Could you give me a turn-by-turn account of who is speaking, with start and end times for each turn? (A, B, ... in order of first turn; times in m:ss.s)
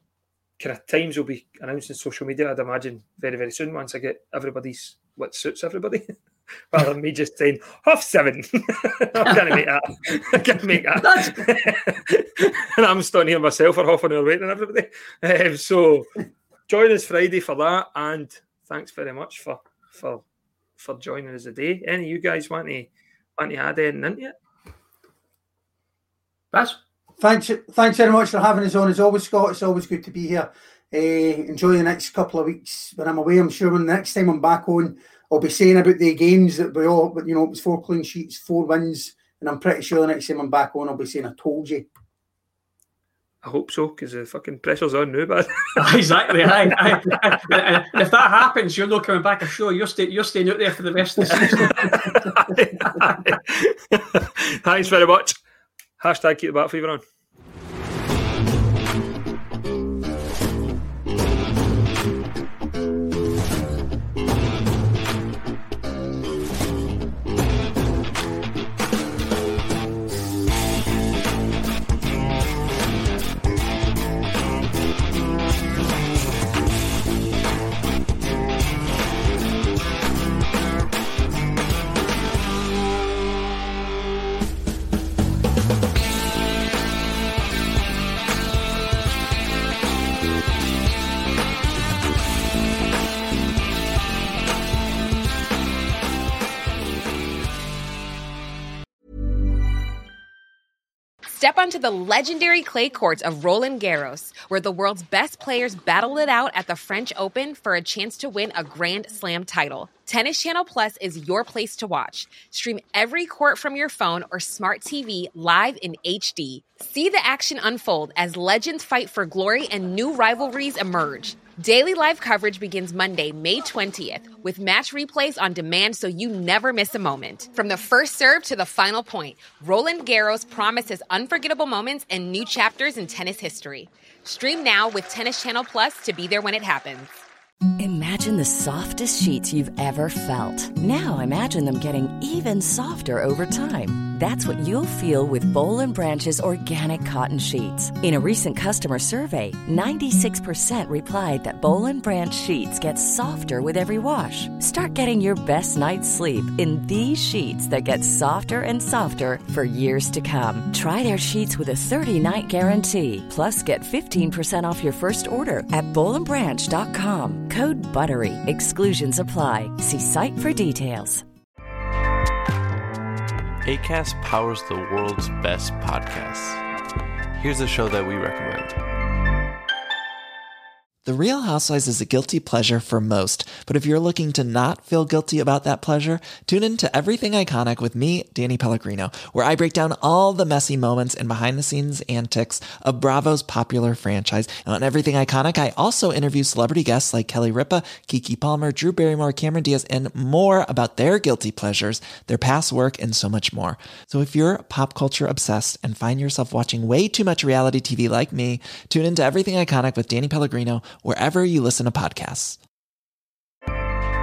0:00.6-0:06.1 A
0:06.7-0:16.1 A
0:09.2-0:09.6 B
0:11.0-0:11.4 B
0:16.7-0:20.2 A
0:20.8-0:24.3 A
0:26.5-0:26.8 B
0:27.2-0:41.9 C
0:43.4-0:45.8 A
0:45.8-0:52.0 B
0:51.4-0:51.8 C
0:51.7-0:55.4 A
0:56.0-0:57.0 A
1:41.3-2:17.1 D
2:17.8-2:51.2 E
2:53.6-2:56.6 F
2:57.4-2:58.8 F
3:01.0-3:32.6 G